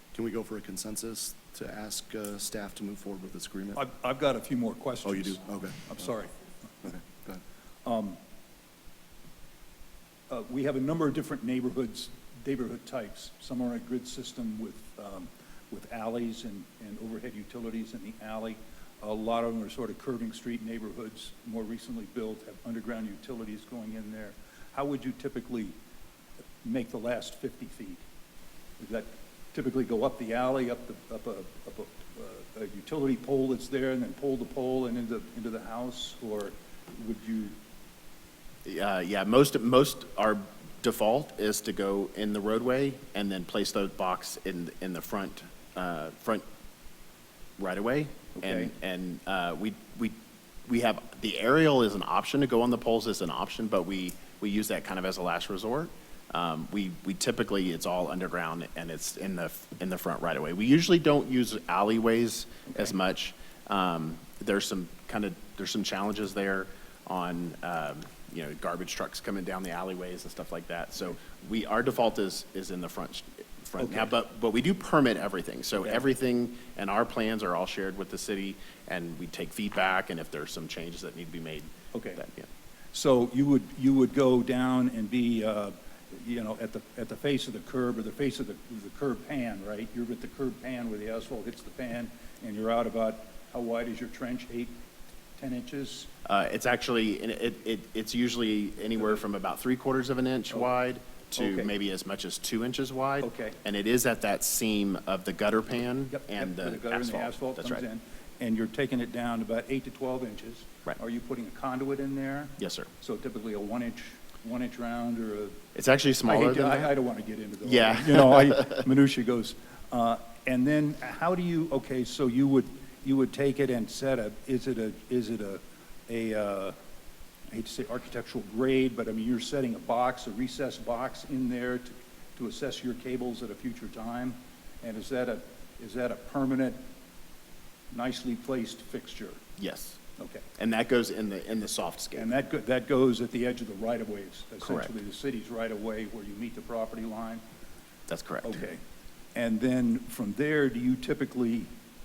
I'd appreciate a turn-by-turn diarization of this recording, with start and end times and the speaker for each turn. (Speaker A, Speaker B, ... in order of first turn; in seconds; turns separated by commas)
Speaker A: 0.1-3.8, Speaker B: 3.8-6.3, Speaker A: 5.0-6.1, Speaker A: 6.8-7.4, Speaker B: 7.8-8.2, Speaker B: 10.3-25.8, Speaker B: 26.6-28.1, Speaker B: 28.8-37.6, Speaker C: 38.6-46.4, Speaker C: 47.6-50.2, Speaker B: 48.4-48.7, Speaker C: 50.7-82.5, Speaker B: 62.7-62.9, Speaker B: 73.8-74.1, Speaker B: 81.9-82.3, Speaker B: 82.9-94.8, Speaker B: 95.4-96.1, Speaker C: 96.3-107.8, Speaker B: 101.3-101.7, Speaker B: 103.2-103.6, Speaker B: 106.1-115.6, Speaker C: 112.6-112.9, Speaker C: 115.8-116.9, Speaker B: 116.2-126.8, Speaker C: 117.6-118.8, Speaker B: 127.5-136.8, Speaker B: 137.9-139.4, Speaker C: 139.6-140.0, Speaker B: 140.2-140.5, Speaker C: 140.6-142.3, Speaker B: 142.1-147.4, Speaker C: 144.6-144.9, Speaker C: 148.1-148.6, Speaker B: 148.4-148.8, Speaker B: 149.3-151.7